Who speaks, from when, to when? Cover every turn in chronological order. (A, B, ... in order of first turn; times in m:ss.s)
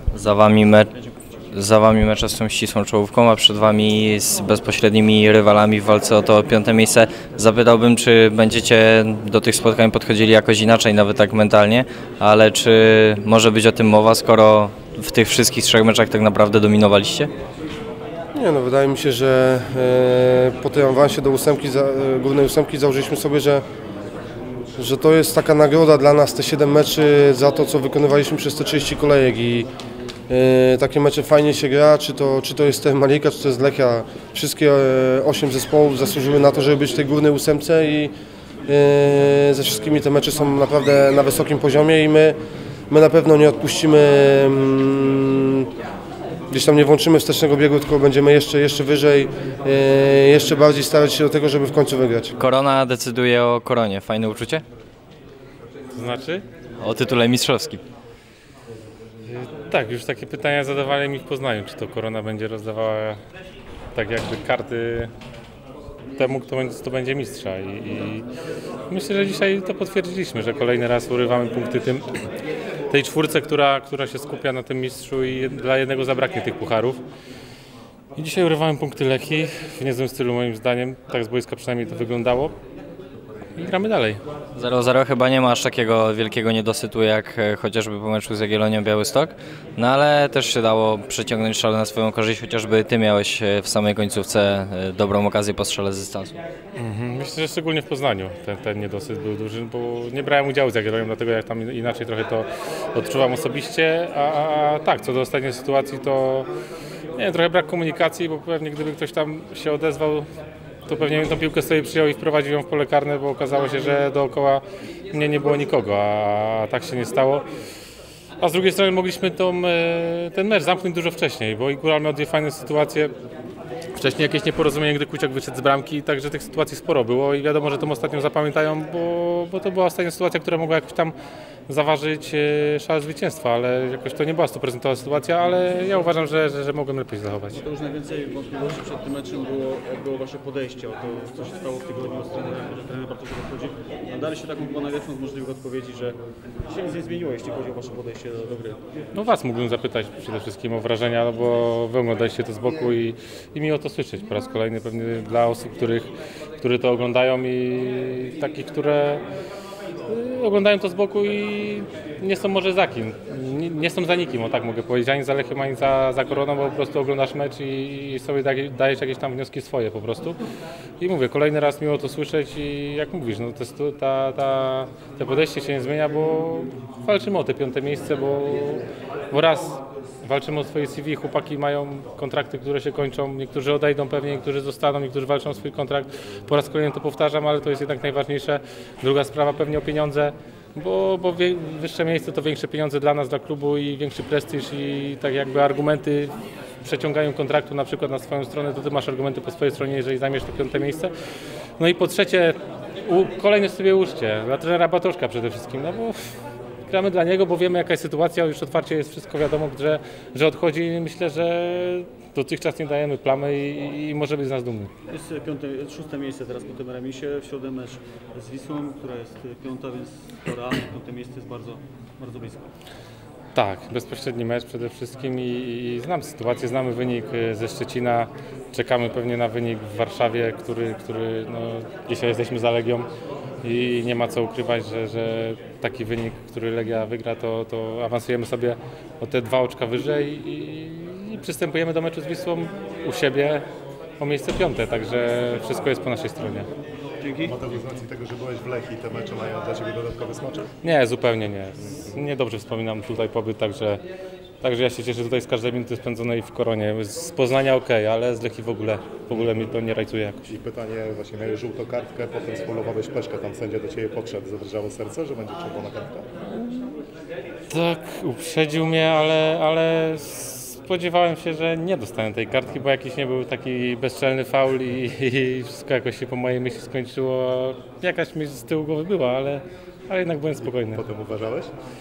0:00.1-0:00.9 A
0:00.9-0:01.4 B
0:01.5-0:17.3 A
0:18.3-0:23.6 C
0:24.8-0:29.7 C
0:30.3-0:38.1 C
0:38.7-0:42.4 C
0:42.9-0:45.7 C
0:46.5-0:52.4 C
0:52.4-0:54.6 A
0:55.9-0:56.4 D
0:56.8-0:57.8 A
0:59.3-1:03.2 D
1:04.0-1:05.1 D
1:06.2-1:08.3 D
1:08.9-1:12.2 D
1:12.9-1:17.0 D
1:18.2-1:22.5 D
1:23.6-1:24.2 D
1:24.6-1:36.4 A
1:36.8-1:46.5 D
1:47.2-1:50.3 D
1:50.9-1:57.5 D
1:58.4-2:03.1 D
2:04.0-2:11.2 D
2:11.7-2:17.6 D
2:17.5-2:28.8 B
2:29.1-2:39.2 D
2:40.1-2:50.4 D
2:51.0-3:21.1 D
3:21.8-3:26.3 D
3:26.9-3:34.9 D
3:35.1-3:42.6 B
3:43.6-3:53.1 D
3:53.6-4:03.6 D
4:04.2-4:06.7 D
4:07.2-4:07.5 B
4:07.3-4:10.7 E
4:10.8-4:14.0 D
4:14.6-4:20.5 D
4:20.5-4:26.3 E
4:26.5-4:26.9 D
4:27.7-4:41.0 D
4:40.6-4:41.7 E